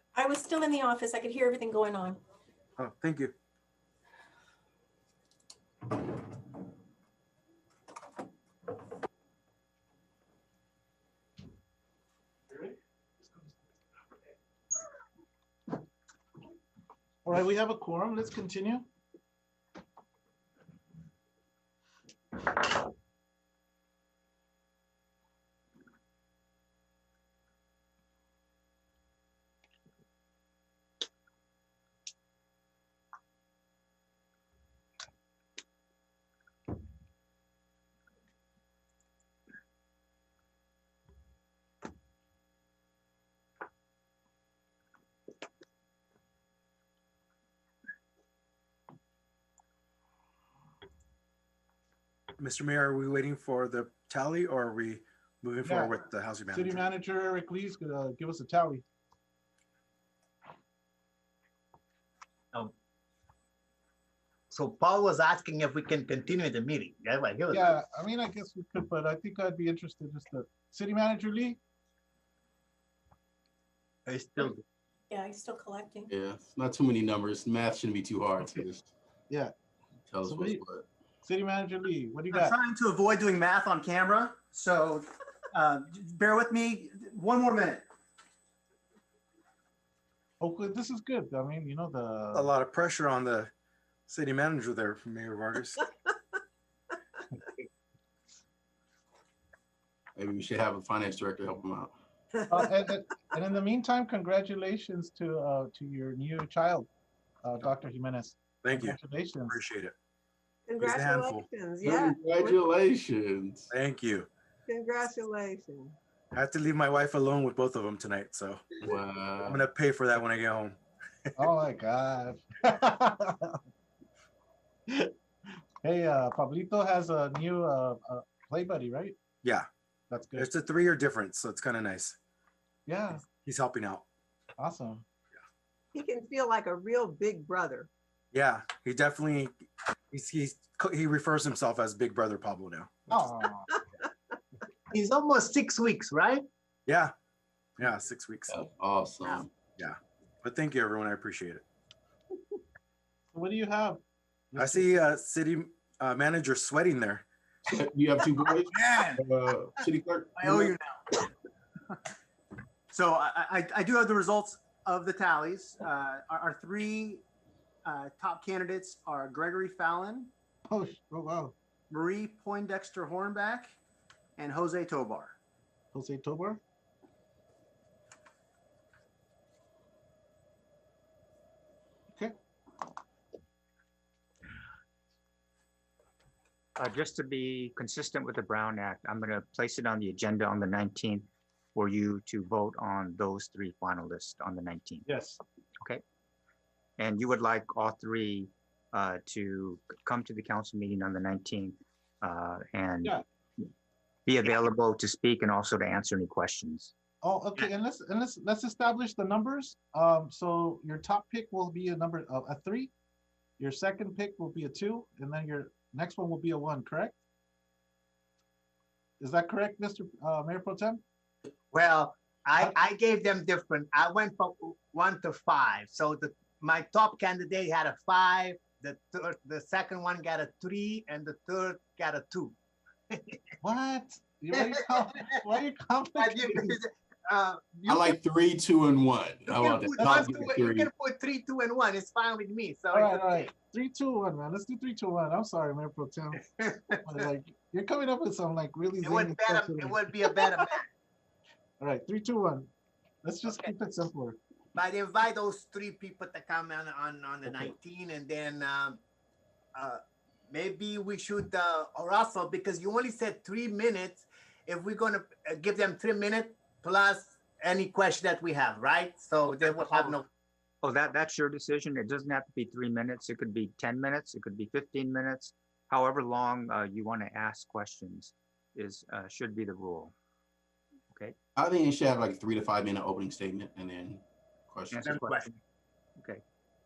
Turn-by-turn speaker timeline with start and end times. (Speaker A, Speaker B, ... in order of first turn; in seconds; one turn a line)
Speaker A: 0.2-2.2
Speaker B: 2.8-3.3
Speaker C: 17.2-18.9
Speaker B: 52.4-56.9
Speaker C: 55.6-55.9
Speaker C: 56.5-58.8
Speaker D: 64.5-67.7
Speaker C: 67.5-71.6
Speaker D: 74.1-74.6
Speaker A: 75.4-76.0
Speaker E: 76.1-78.9
Speaker E: 80.1-80.8
Speaker C: 80.2-80.6
Speaker C: 81.2-82.5
Speaker F: 82.3-87.8
Speaker C: 90.4-92.5
Speaker B: 92.3-93.5
Speaker B: 94.1-95.9
Speaker E: 100.2-101.9
Speaker C: 102.5-106.9
Speaker C: 107.4-109.5
Speaker B: 108.6-109.0
Speaker B: 109.5-109.9
Speaker G: 110.7-112.1
Speaker B: 110.8-111.5
Speaker E: 111.8-113.7
Speaker B: 113.7-114.3
Speaker G: 114.7-115.9
Speaker B: 116.3-118.7
Speaker E: 118.8-119.6
Speaker B: 119.4-120.8
Speaker C: 121.4-123.6
Speaker C: 125.8-129.2
Speaker C: 130.1-130.5
Speaker B: 130.4-132.2
Speaker C: 132.9-133.2
Speaker B: 133.3-134.1
Speaker C: 134.6-135.0
Speaker B: 138.3-143.1
Speaker C: 143.1-143.7
Speaker D: 144.9-146.4
Speaker B: 146.9-147.1
Speaker B: 147.8-148.5
Speaker E: 148.5-149.5
Speaker B: 149.8-151.6
Speaker C: 153.3-154.0
Speaker C: 154.5-154.9
Speaker B: 154.6-157.2
Speaker E: 157.7-160.7
Speaker F: 159.0-159.2
Speaker F: 160.3-161.2
Speaker F: 162.9-167.2
Speaker F: 167.8-170.3
Speaker C: 170.7-171.5
Speaker F: 171.9-173.7
Speaker F: 174.4-175.3
Speaker C: 175.9-176.6
Speaker H: 186.8-195.0
Speaker C: 195.0-195.4
Speaker H: 197.0-203.7
Speaker H: 204.2-206.9
Speaker C: 207.2-212.9
Speaker C: 213.6-217.2
Speaker C: 219.2-221.0
Speaker D: 221.7-232.5
Speaker D: 233.1-233.4
Speaker C: 233.6-236.8
Speaker D: 234.5-235.4
Speaker D: 236.2-238.2
Speaker E: 237.8-240.9
Speaker D: 239.5-243.5
Speaker C: 242.9-246.4
Speaker D: 246.4-247.3
Speaker C: 247.0-250.7
Speaker D: 249.0-250.8
Speaker C: 251.8-252.7
Speaker C: 253.2-254.4
Speaker D: 254.7-259.0
Speaker D: 259.8-270.2
Speaker H: 270.8-280.1
Speaker E: 281.6-285.3
Speaker H: 284.9-285.6